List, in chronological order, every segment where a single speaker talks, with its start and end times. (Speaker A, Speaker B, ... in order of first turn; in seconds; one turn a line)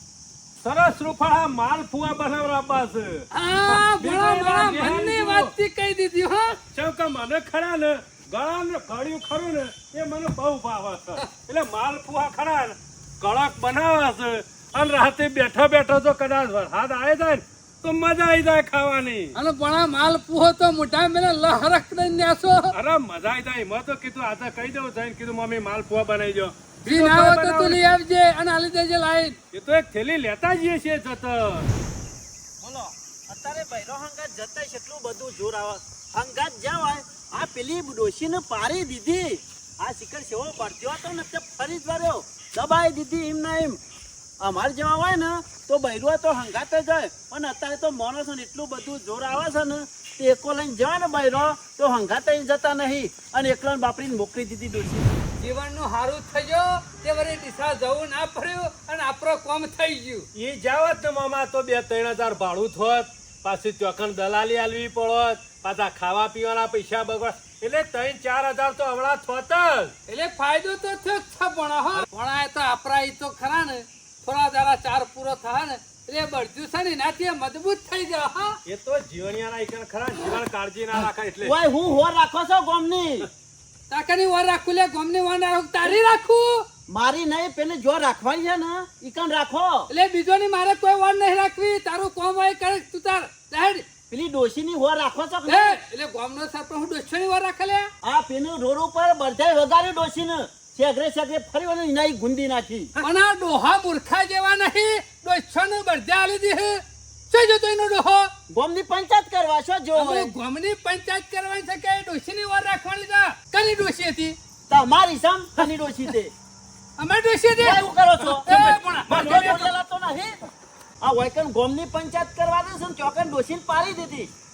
Speaker A: 0.6-5.5
Speaker B: 3.3-6.6
Speaker A: 6.7-19.3
Speaker B: 19.4-22.8
Speaker A: 22.7-27.8
Speaker B: 26.9-29.4
Speaker A: 29.5-31.7
Speaker C: 32.6-43.8
Speaker C: 44.4-55.1
Speaker B: 55.4-60.3
Speaker A: 60.3-69.9
Speaker B: 70.1-78.6
Speaker A: 78.7-81.6
Speaker C: 81.4-83.3
Speaker B: 83.9-86.7
Speaker C: 86.9-89.9
Speaker B: 89.9-93.9
Speaker C: 94.1-95.8
Speaker B: 95.5-97.9
Speaker C: 98.0-102.9
Speaker B: 103.0-108.3
Speaker C: 108.5-110.3
Speaker B: 110.0-114.4
Speaker C: 114.7-116.3
Speaker B: 117.0-119.5
Speaker C: 117.6-118.5
Speaker A: 118.2-119.7
Speaker C: 119.1-120.4
Speaker C: 121.0-124.3